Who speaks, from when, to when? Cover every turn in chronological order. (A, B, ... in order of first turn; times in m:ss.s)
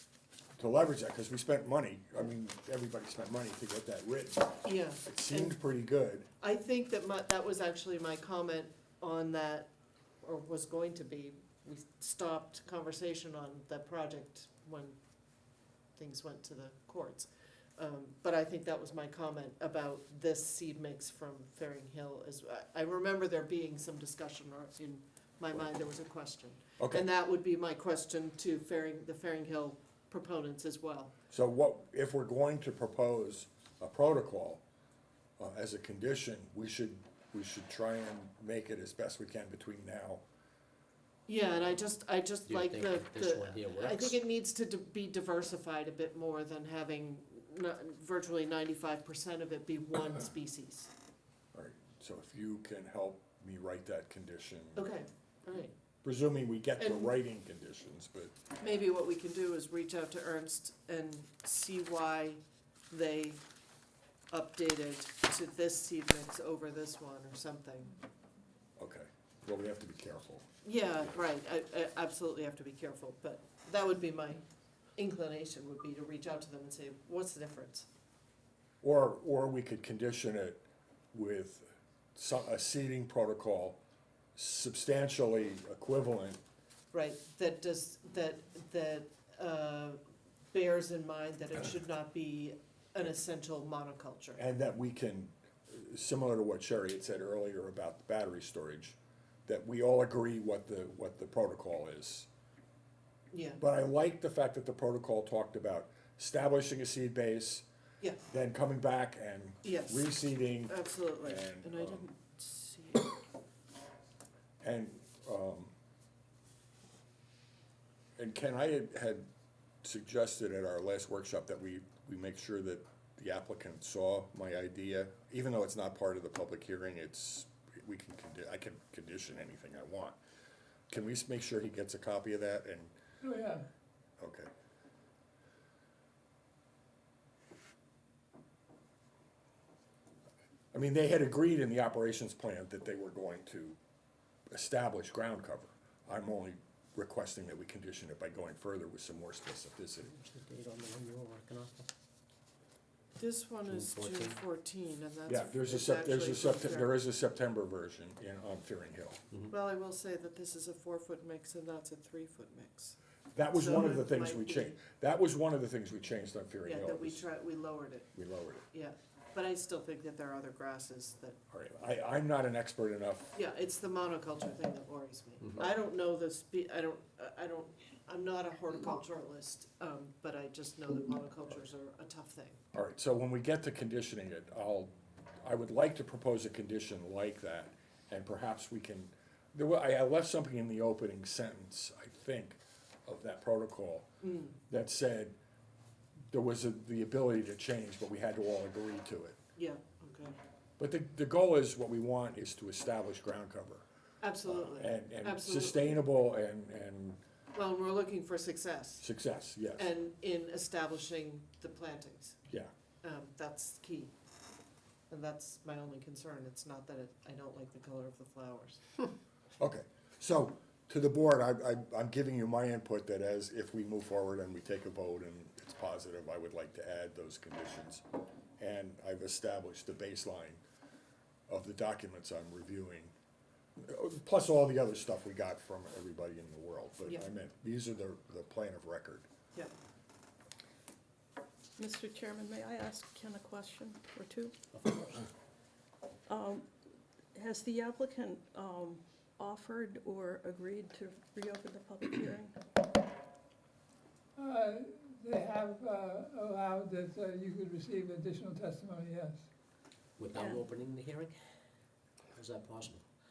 0:00.6-0:06.3 A
0:04.6-0:05.6 B
0:06.4-0:09.7 B
0:10.2-0:15.0 B
0:16.0-0:31.1 B
0:26.8-0:27.0 A
0:31.3-0:34.6 A
0:35.4-0:40.2 A
0:41.3-0:50.9 B
0:42.5-0:44.2 C
0:51.5-0:54.8 A
0:54.8-0:55.7 B
0:56.0-0:58.4 A
0:56.8-0:57.1 B
0:58.6-1:03.4 B
1:04.3-1:08.0 B
1:08.8-1:10.5 A
1:10.6-1:14.4 B
1:15.0-1:17.9 B
1:18.8-1:23.8 A
1:24.3-1:26.4 A
1:26.9-1:30.0 B
1:30.5-1:34.4 B
1:34.4-1:42.3 A
1:43.3-1:43.6 B
1:43.6-1:47.7 A
1:48.3-1:52.1 A
1:49.6-1:50.2 B
1:50.7-1:53.1 B
1:54.6-1:55.7 A
1:58.2-1:59.3 A
1:59.8-2:10.2 A
2:10.9-2:13.0 A
2:13.2-2:13.6 D
2:14.2-2:14.5 A
2:20.7-2:23.8 A
2:24.5-2:30.1 A
2:30.0-2:31.9 C
2:33.2-2:37.0 B
2:33.7-2:34.4 C
2:35.3-2:39.2 A
2:39.5-2:43.0 B
2:43.3-2:47.3 A
2:43.5-2:44.8 B
2:46.6-2:48.1 B
2:48.2-2:48.6 A
2:48.7-2:51.4 B
2:51.5-2:53.3 A
2:53.3-3:02.6 B
3:02.7-3:14.1 A
3:14.2-3:14.6 B
3:14.7-3:15.3 A
3:16.3-3:19.4 A
3:19.6-3:20.4 B
3:20.8-3:23.8 A
3:24.2-3:26.0 B
3:24.4-3:27.2 A
3:27.5-3:29.0 B
3:29.0-3:29.9 A
3:29.8-3:32.4 B
3:33.0-3:34.1 B
3:35.1-3:38.8 B
3:39.6-3:48.0 A
3:48.6-3:50.6 A
3:51.5-3:53.1 A
3:53.8-3:59.3 A
4:01.8-4:04.5 E
4:04.7-4:05.3 C
4:06.3-4:06.7 E
4:07.3-4:12.5 E
4:14.4-4:19.4 D
4:20.2-4:21.4 C
4:20.3-4:20.6 E
4:22.3-4:23.0 C